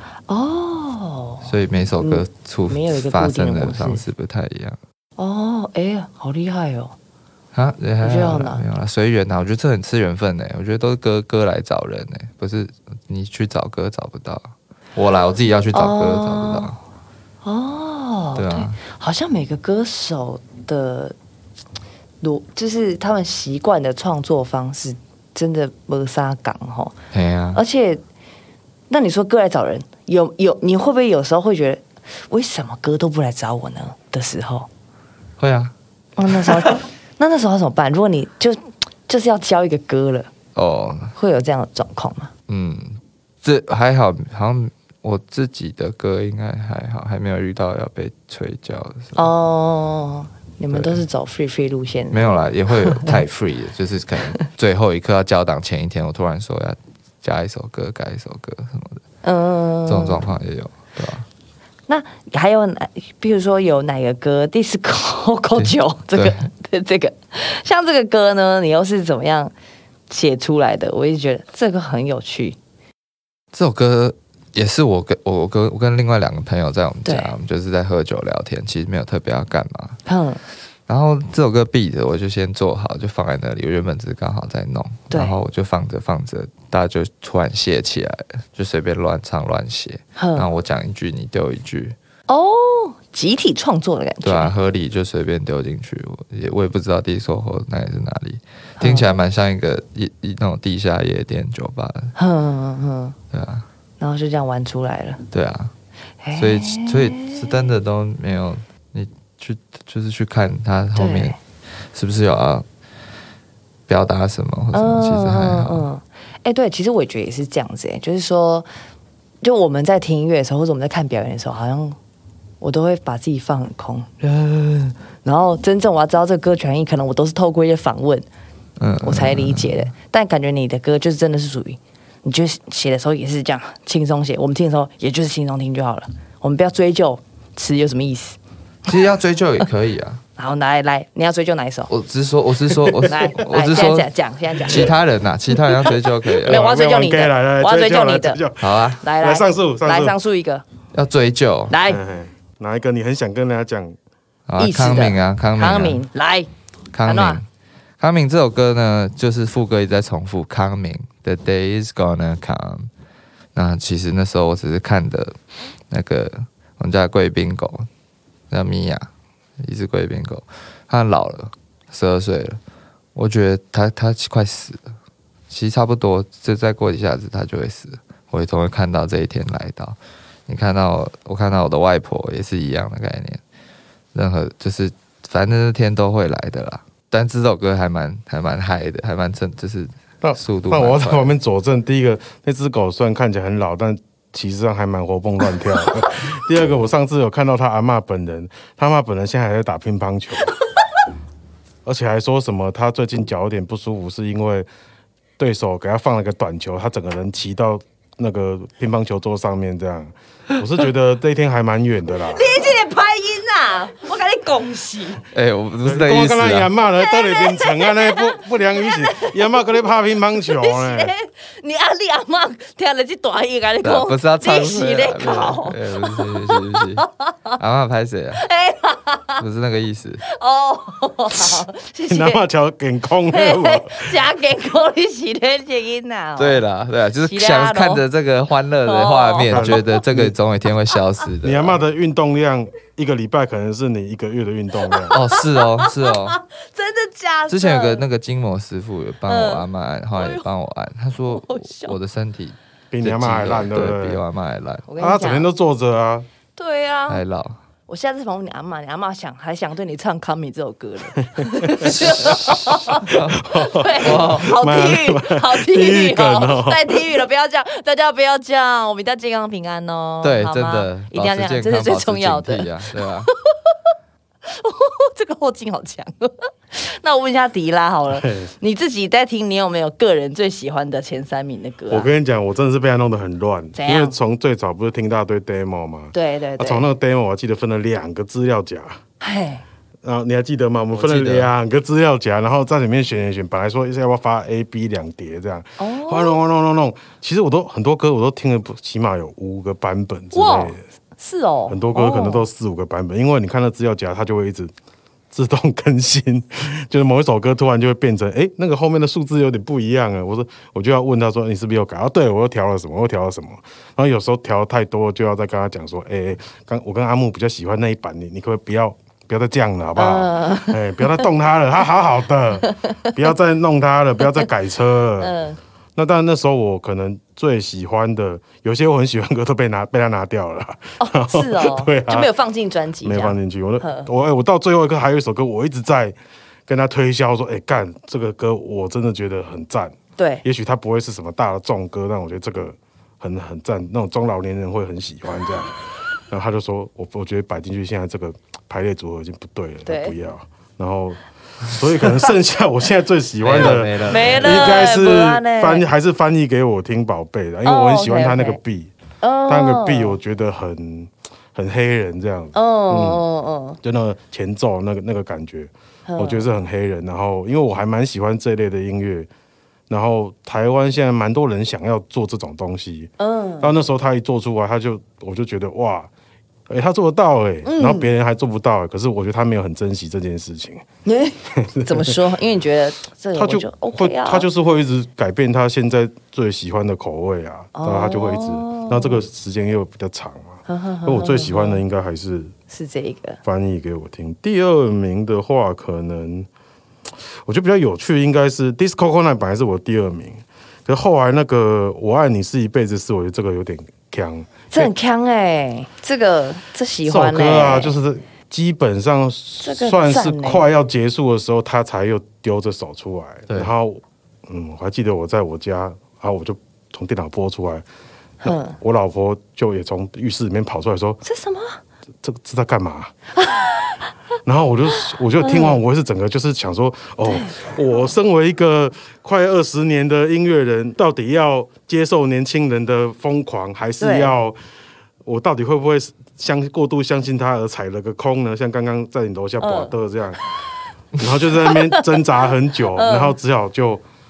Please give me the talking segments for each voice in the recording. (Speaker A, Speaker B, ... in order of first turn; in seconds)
Speaker A: 0.3-1.5, 2.0-4.0, 5.2-6.9, 8.0-8.6, 15.7-16.7, 17.4-21.1, 22.2-26.9, 27.5-28.0, 28.9-34.7, 36.2-40.3, 41.1-42.3, 49.1-52.2, 52.8-53.2, 59.2-60.2, 61.9-69.5, 70.1-72.6, 77.0-77.3, 80.0-80.4, 85.1-85.3, 90.2-90.5, 92.3-94.5, 98.8-99.0, 102.2-103.2, 104.0-105.2, 106.2-107.5, 110.9-111.4, 114.7-118.7, 119.4-122.0, 122.6-128.2, 129.0-138.4, 140.4-141.9, 143.1-144.9, 145.6-148.4, 149.0-150.6, 151.7-152.0, 154.6-156.5, 157.0-157.4, 212.2-215.2, 217.0-227.6, 228.4-229.4, 230.2-232.4, 233.3-236.6, 237.2-238.0, 238.8-240.0, 244.9-248.0, 249.3-250.5, 251.2-251.9, 254.8-255.5, 256.6-257.2, 257.9-273.7, 274.4-282.1, 283.7-284.1, 286.1-286.9, 289.2-289.6, 295.8-296.4, 300.3-302.4, 320.0-321.2, 322.6-323.1, 325.2-325.6, 331.0-334.1, 340.2-340.4, 349.8-350.1, 353.6-355.9, 357.6-358.6, 359.2-360.1, 362.5-363.8, 366.1-366.4, 373.2-373.7, 377.6-378.1, 381.0-384.5, 387.7-389.2, 390.7-391.8, 392.7-393.4, 404.7-407.9, 409.6-410.6, 418.4-418.8, 421.2-421.8, 423.4-424.1, 425.0-425.8, 427.2-427.6, 434.0-434.3, 439.6-439.9, 441.6-442.2, 442.9-443.4
Speaker B: 1.4-4.8, 7.5-16.8, 18.4-18.8, 27.1-27.6, 35.4-35.7, 36.2-36.8, 40.5-41.1, 42.5-49.3, 50.7-51.0, 52.1-59.0, 59.9-61.2, 65.6-66.4, 73.5-80.0, 80.9-92.0, 94.2-102.1, 103.3-103.7, 105.3-105.7, 106.3-111.4, 111.9-112.6, 113.9-115.9, 128.8-129.9, 138.8-140.2, 141.9-146.6, 148.6-149.0, 150.9-151.8, 154.5-156.0, 156.9-157.4, 158.0-162.9, 163.5-165.3, 165.9-167.9, 168.5-169.1, 169.6-172.6, 173.1-174.9, 175.5-183.4, 184.1-191.3, 215.3-216.7, 223.8-227.0, 227.6-228.4, 229.4-230.2, 236.4-241.8, 245.1-246.4, 247.5-254.8, 257.1-257.6, 261.9-263.4, 264.0-264.5, 270.2-273.3, 290.9-291.5, 353.4-354.8
Speaker C: 146.4-150.2, 151.9-154.0, 190.2-200.5, 201.8-204.7, 205.4-212.6, 215.8-221.1, 232.1-234.2, 239.5-240.3, 241.4-245.2, 252.9-254.2, 255.0-256.3, 261.2-267.0, 278.1-278.5, 281.9-289.0, 290.0-300.8, 301.7-304.7, 305.3-325.4, 325.9-332.3, 333.0-336.1, 336.7-345.8, 346.3-358.9, 359.5-363.2, 363.8-369.3, 369.9-376.1, 376.7-380.8, 381.6-382.2, 383.4-392.5, 393.4-396.5, 397.4-404.9, 407.0-417.8, 418.4-421.2, 422.2-423.1, 424.4-434.6, 435.2-440.4, 441.2-444.0